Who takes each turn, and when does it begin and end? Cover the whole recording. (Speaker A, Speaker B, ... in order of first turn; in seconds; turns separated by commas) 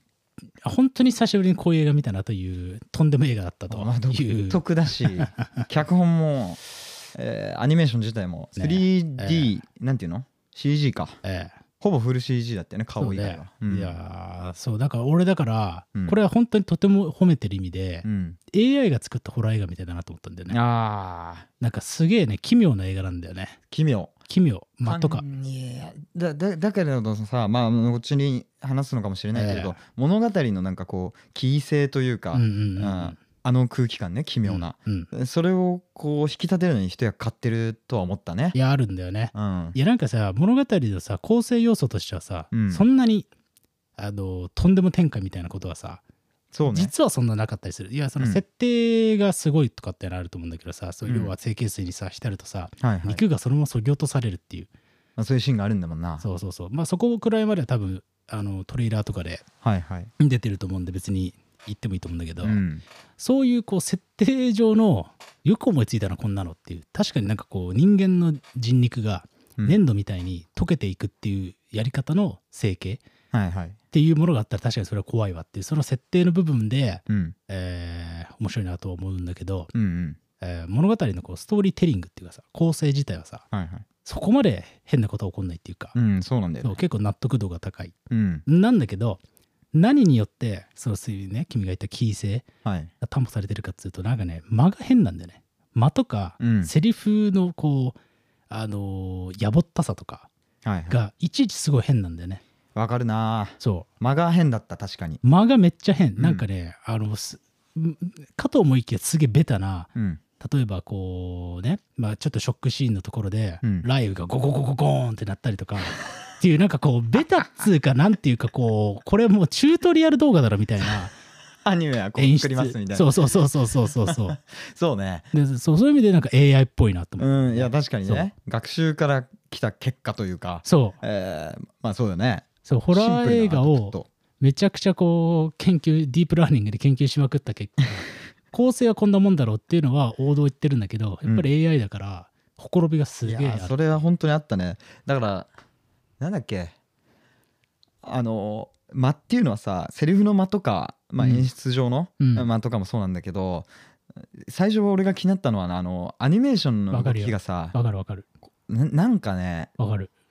Speaker A: 0.6-5.6, Speaker B: 3.7-6.6, Speaker B: 7.1-11.2, Speaker A: 8.6-9.5, Speaker A: 11.2-11.6, Speaker B: 11.8-13.9, Speaker A: 13.0-20.6, Speaker B: 18.0-18.4, Speaker B: 20.5-21.5, Speaker A: 21.6-23.6, Speaker B: 23.7-24.1, Speaker A: 24.3-25.2, Speaker B: 24.8-38.5, Speaker A: 29.3-29.8, Speaker A: 32.3-33.2, Speaker A: 34.4-35.1, Speaker A: 38.5-43.3, Speaker B: 39.3-39.8, Speaker B: 42.5-42.8, Speaker A: 44.0-46.0, Speaker B: 46.5-46.9, Speaker A: 46.6-54.7, Speaker B: 51.0-51.3, Speaker B: 52.8-53.2, Speaker B: 55.2-56.2, Speaker A: 56.2-59.4, Speaker B: 59.6-60.1, Speaker A: 60.2-62.6, Speaker B: 62.4-62.8, Speaker A: 63.2-73.0, Speaker B: 73.3-73.8, Speaker A: 73.9-79.7, Speaker B: 77.1-77.3, Speaker B: 79.7-80.2, Speaker A: 80.4-83.5, Speaker B: 83.5-83.9, Speaker A: 84.0-85.9, Speaker B: 85.9-86.8, Speaker A: 86.6-87.9, Speaker B: 88.1-88.4, Speaker A: 88.5-89.2, Speaker A: 89.7-92.5, Speaker B: 92.6-92.9, Speaker A: 93.0-98.0, Speaker B: 96.4-96.7, Speaker A: 98.5-100.3, Speaker B: 100.6-101.0, Speaker A: 100.9-102.4, Speaker B: 102.8-105.2, Speaker A: 103.6-103.9, Speaker A: 105.2-121.1, Speaker B: 106.2-106.4, Speaker B: 109.9-110.2, Speaker B: 121.6-123.1, Speaker A: 122.2-124.4, Speaker B: 124.0-125.3, Speaker A: 125.3-128.3, Speaker B: 127.2-134.1, Speaker A: 130.6-131.0, Speaker A: 132.6-143.8, Speaker B: 143.2-145.5, Speaker B: 146.2-146.8, Speaker B: 148.0-153.7, Speaker A: 151.2-151.5, Speaker A: 152.2-152.5, Speaker B: 154.2-157.8, Speaker A: 156.9-158.2, Speaker B: 158.7-159.7, Speaker A: 159.8-160.1